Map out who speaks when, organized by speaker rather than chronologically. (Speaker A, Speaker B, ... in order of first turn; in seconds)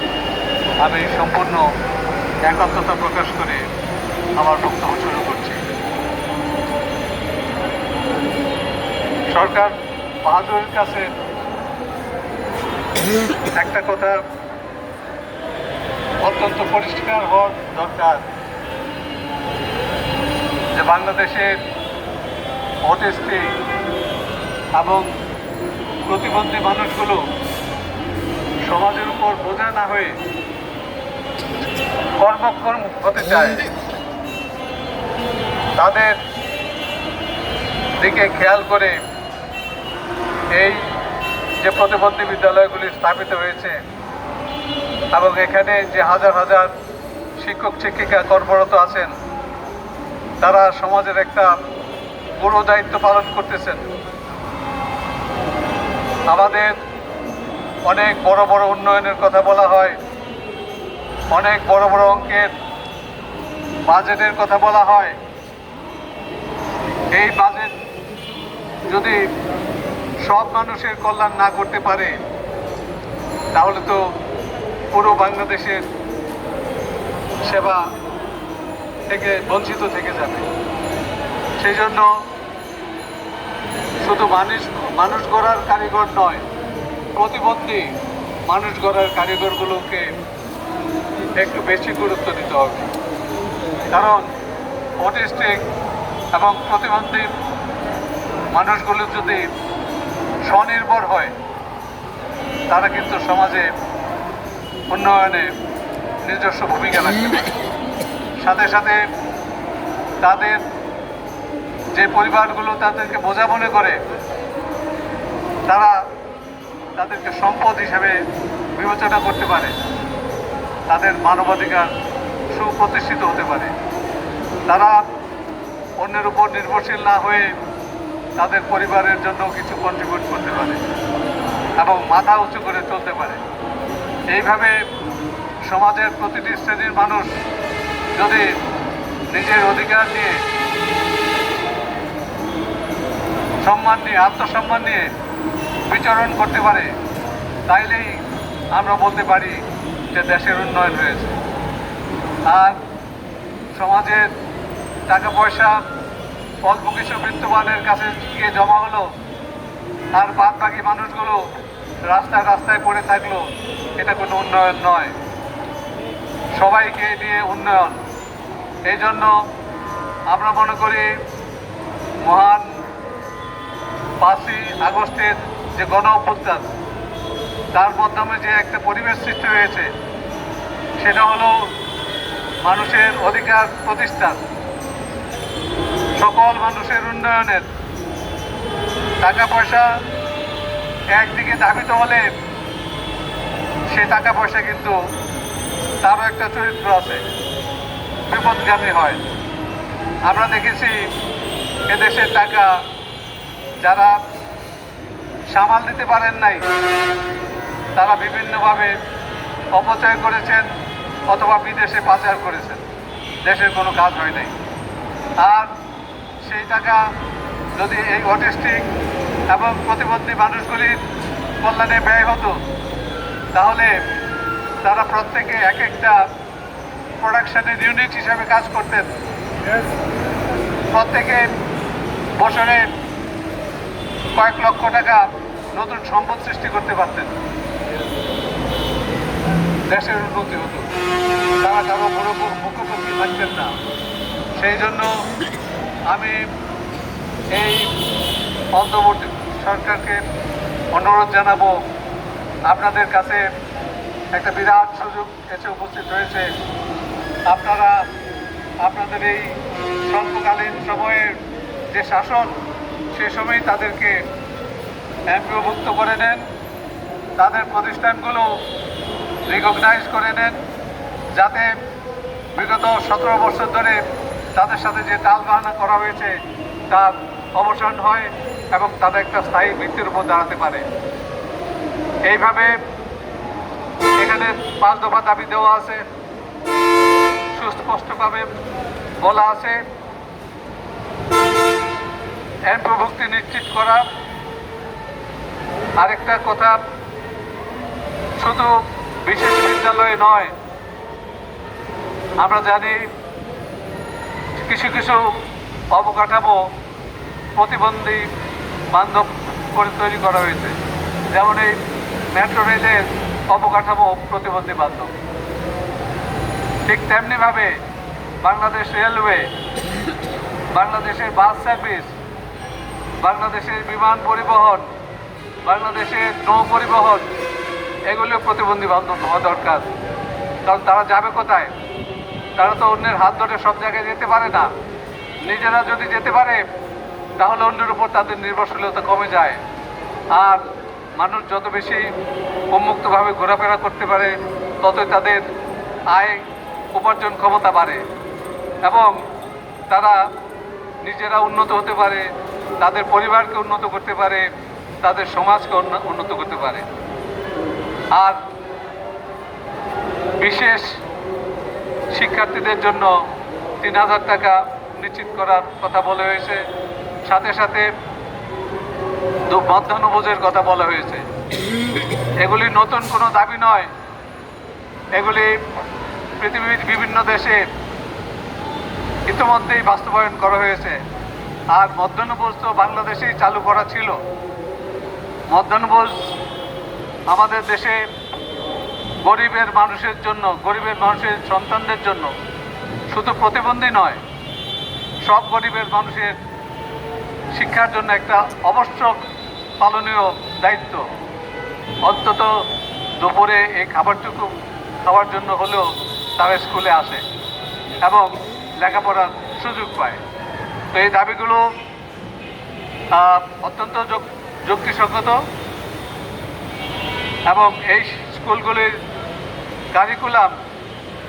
Speaker A: 0.8-1.6, 2.4-3.6, 4.4-5.6, 9.3-11.1, 13.5-14.2, 16.2-18.2, 20.7-21.6, 22.8-23.5, 24.8-25.1, 26.1-27.2, 28.6-30.2, 32.2-33.7, 35.8-36.2, 38.0-39.0, 40.5-40.8, 41.6-43.8, 45.1-46.7, 47.4-49.1, 50.4-51.5, 52.4-53.8, 56.3-56.8, 57.9-60.0, 61.3-62.5, 63.9-65.2, 67.1-67.7, 68.9-69.2, 70.2-72.2, 73.5-74.0, 74.9-75.8, 77.5-77.8, 79.1-80.5, 81.6-82.1, 84.0-86.4, 87.1-87.9, 88.5-90.1, 91.4-92.9, 93.9-94.2, 95.0-95.7, 96.3-97.3, 98.5-99.5, 100.5-101.3, 102.7-103.7, 104.9-105.5, 106.2-107.5, 108.4-109.0, 110.2-110.6, 111.9-114.0, 115.7-115.9, 117.0-118.2, 118.7-119.8, 120.9-121.9, 122.5-123.7, 124.7-125.0, 126.0-127.5, 128.4-130.8, 131.8-133.4, 134.3-134.8, 135.7-137.3, 138.2-138.4, 139.3-140.4, 143.6-145.1, 145.9-146.9, 147.7-148.2, 148.7-151.4, 152.5-152.8, 153.7-154.3, 155.1-155.8, 156.6-159.1, 160.1-161.4, 162.1-163.4, 164.0-165.1, 166.6-168.0, 168.9-169.3, 170.3-171.1, 172.2-172.7, 174.2-176.7, 177.7-179.9, 181.0-181.6, 182.6-184.4, 186.2-187.7, 189.2-189.9, 191.1-192.3, 193.9-194.9, 196.0-197.2, 198.3-199.2, 200.3-201.0, 201.9-202.7, 203.8-204.2, 205.5-206.6, 207.9-208.9, 209.7-210.7, 211.3-212.8, 213.4-214.5, 215.4-215.7, 216.4-217.0, 217.8-218.8, 219.5-221.0, 221.6-222.6, 223.5-223.9, 224.8-226.2, 227.2-229.1, 230.9-231.4, 232.4-232.9, 234.3-237.3, 239.9-240.9, 241.6-243.7, 244.6-245.1, 246.1-246.4, 247.5-247.9, 248.7-250.2, 250.9-251.8, 252.7-253.4, 254.3-256.5, 257.5-258.0, 258.8-259.5, 260.1-261.4, 261.9-262.6, 263.1-264.2, 265.3-266.4, 267.4-268.5, 269.5-270.6, 271.3-271.7, 272.5-274.0, 274.5-276.4, 276.9-280.8, 282.2-282.8, 284.2-286.0, 287.5-288.5, 289.2-289.8, 292.7-294.1, 296.0-296.8, 298.4-300.5, 302.4-303.1, 304.6-305.4, 305.9-306.6, 307.5-308.3, 308.9-310.8, 311.3-311.8, 312.3-315.1, 316.9-317.8, 318.4-319.5, 320.7-322.1, 323.2-324.9, 325.6-327.3, 328.1-329.9, 330.6-331.7, 332.6-334.7, 335.4-336.6, 337.4-339.6, 340.3-340.6, 341.2-342.1, 342.7-345.5, 346.1-348.0, 348.8-349.2, 349.9-350.2, 351.0-352.2, 352.8-354.4, 355.0-356.9, 358.1-358.4, 360.4-361.0, 362.1-363.1, 363.8-366.6, 367.2-367.9, 369.5-371.2, 372.4-373.9, 375.1-375.6, 376.4-377.6, 379.3-381.0, 381.7-384.2, 385.5-386.2, 387.3-388.0, 389.2-392.3, 393.1-394.2, 395.2-396.4, 397.5-399.2, 399.8-401.1, 402.0-402.6, 403.2-404.5, 405.0-407.2, 408.0-410.2, 410.9-411.6, 413.1-415.4, 417.5-419.0, 419.9-420.5